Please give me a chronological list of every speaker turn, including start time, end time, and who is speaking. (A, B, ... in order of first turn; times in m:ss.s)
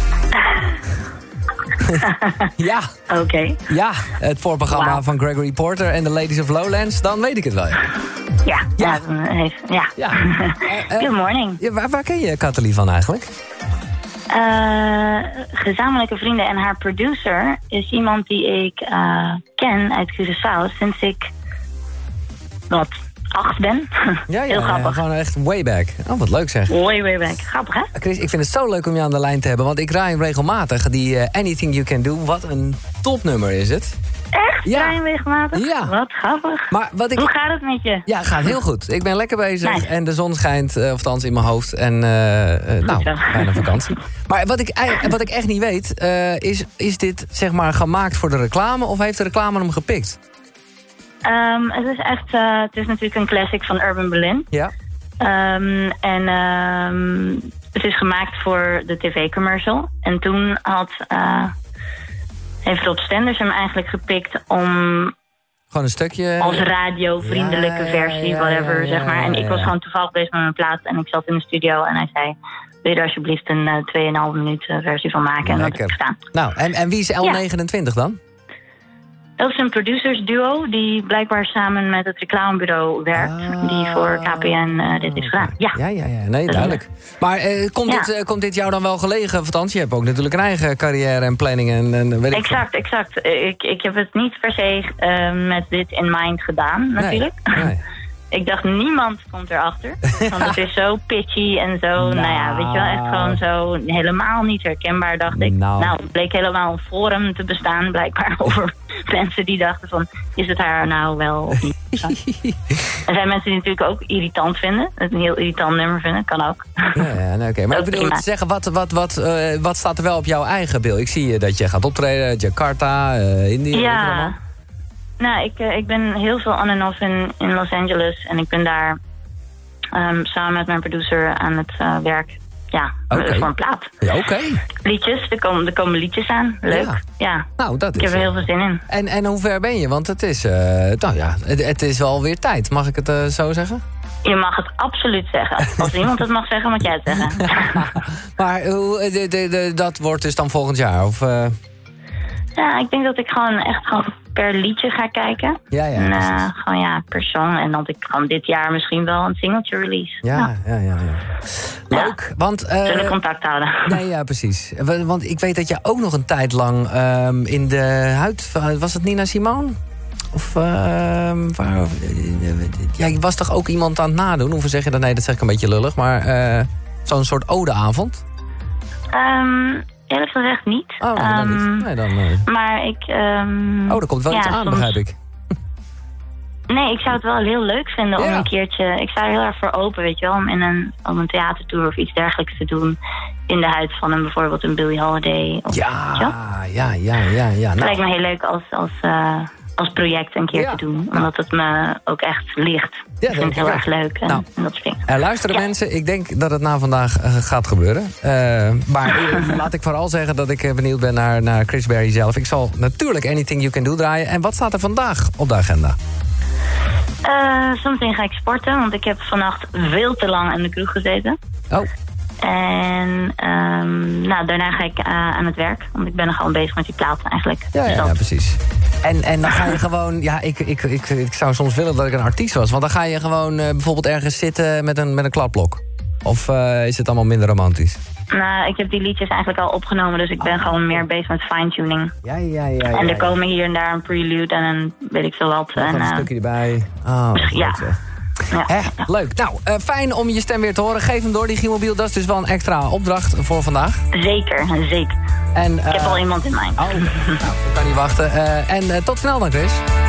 0:00.4-0:00.7 A
0:01.8-0:02.0 B
0:02.0-0:02.5 A
0:02.6-0:02.9 B
0:03.1-0:03.6 A
0:03.7-0:07.9 B
0:04.7-0:05.0 A
0:08.4-0:11.6 A
0:08.8-0:09.0 B
0:10.0-0:13.3 B
0:14.3-0:21.2 A
0:22.7-0:25.0 A
0:24.3-0:26.8 B
0:26.7-0:27.9 A
0:28.0-0:34.0 B
0:34.3-0:38.1 A
0:34.6-0:35.0 B
0:35.5-0:36.0 B
0:36.7-0:37.3 B
0:38.1-0:50.2 B
0:39.6-0:39.9 A
0:42.9-0:43.8 A
0:51.2-0:54.5 A
0:55.2-1:01.5 A
1:02.7-1:05.1 A
1:05.7-1:06.7 B
1:06.4-1:16.2 A
1:07.2-1:09.7 B
1:15.4-1:18.2 B
1:19.4-1:25.8 A
1:23.1-1:32.6 B
1:26.5-1:26.8 A
1:32.3-1:37.7 A
1:37.0-1:37.8 B
1:38.3-1:52.2 A
1:42.0-1:43.4 B
1:45.3-1:46.0 B
1:51.9-1:52.6 B
1:53.0-1:57.1 A
1:57.0-2:04.4 B
1:57.7-1:58.2 A
2:03.7-2:04.4 A
2:05.2-2:09.0 A
2:09.9-2:13.9 A
2:13.1-2:14.6 B
2:14.8-2:18.8 A
2:16.7-2:17.0 B
2:17.6-2:23.8 B
2:24.2-2:28.0 A
2:27.4-2:31.5 B
2:32.6-2:40.5 A
2:35.7-2:36.5 B
2:40.2-2:43.2 B
2:42.8-2:44.0 A
2:43.9-2:49.8 B
2:50.3-2:58.2 B
2:59.1-3:01.9 A
3:01.0-3:02.5 B
3:02.4-3:05.0 A
3:03.9-3:05.2 B
3:06.7-3:16.3 A
3:08.2-3:08.5 B
3:15.7-3:18.0 B
3:17.8-3:25.0 A
3:20.5-3:21.3 B
3:23.2-3:24.4 B
3:25.1-3:36.0 B
3:37.2-3:41.4 A
3:42.4-3:48.2 A
3:47.7-3:58.0 B
3:58.3-4:02.1 A
4:00.4-4:01.1 B
4:02.2-4:03.4 B
4:02.9-4:06.3 A
4:05.8-4:08.0 B
4:07.4-4:07.9 A
4:08.5-4:14.0 B
4:14.1-4:15.2 A
4:15.5-4:16.2 B
4:15.9-4:17.4 A
4:16.8-4:19.8 B